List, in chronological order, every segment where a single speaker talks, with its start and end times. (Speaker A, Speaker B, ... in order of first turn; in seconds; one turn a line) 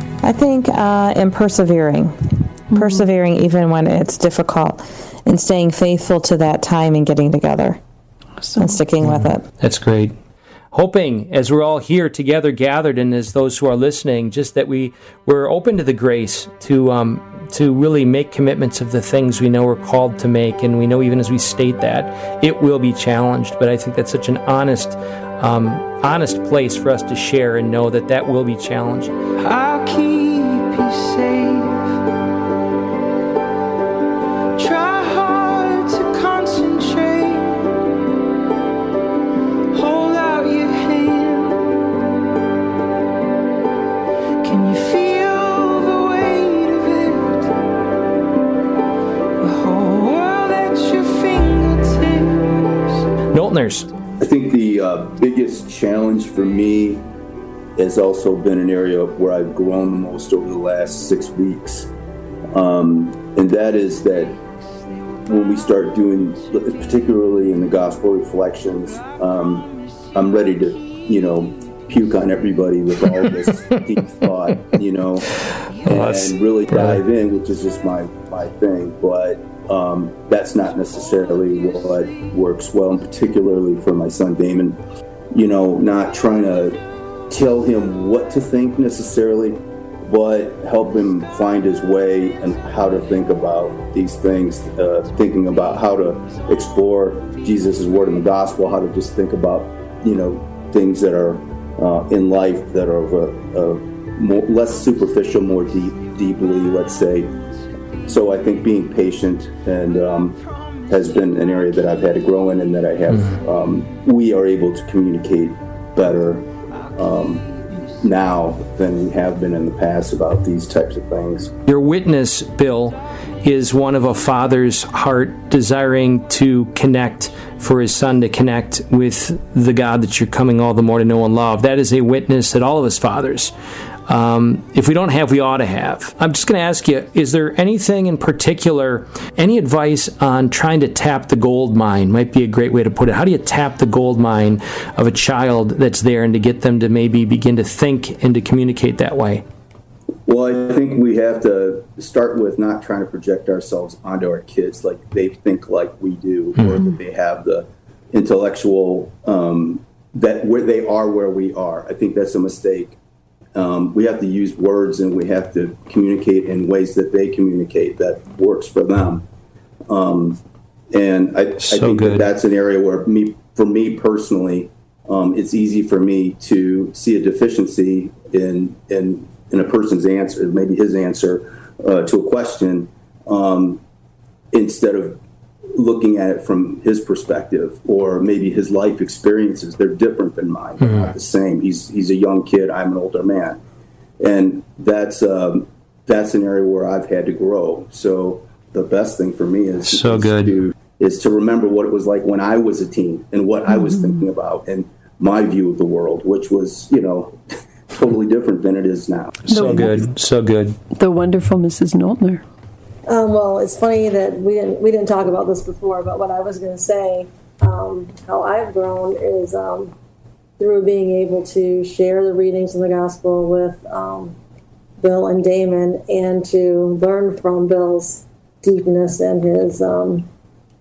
Speaker A: 0.2-7.8
Speaker B: 2.7-3.1
Speaker B: 8.4-8.8
Speaker A: 8.6-9.4
Speaker C: 9.0-10.2
Speaker C: 10.7-29.1
Speaker D: 29.4-31.8
Speaker D: 34.6-37.7
Speaker D: 39.7-41.8
Speaker D: 44.4-47.5
Speaker D: 49.4-53.0
Speaker C: 53.3-53.9
Speaker E: 54.2-57.1
Speaker E: 57.8-61.9
Speaker E: 62.5-64.4
Speaker E: 65.2-75.3
Speaker C: 75.8-77.0
Speaker E: 75.9-84.8
Speaker E: 85.3-107.3
Speaker E: 108.1-121.5
Speaker C: 121.7-133.5
Speaker C: 134.1-149.4
Speaker E: 150.2-163.0
Speaker E: 163.6-169.2
Speaker E: 169.9-170.4
Speaker E: 170.9-183.8
Speaker C: 171.7-172.3
Speaker E: 184.5-185.2
Speaker E: 185.7-193.6
Speaker C: 190.8-191.1
Speaker E: 194.2-209.8
Speaker C: 199.9-200.5
Speaker B: 203.7-204.2
Speaker C: 209.5-210.8
Speaker B: 209.5-210.1
Speaker B: 210.9-212.4
Speaker F: 213.1-219.9
Speaker F: 220.6-224.3
Speaker F: 225.0-230.2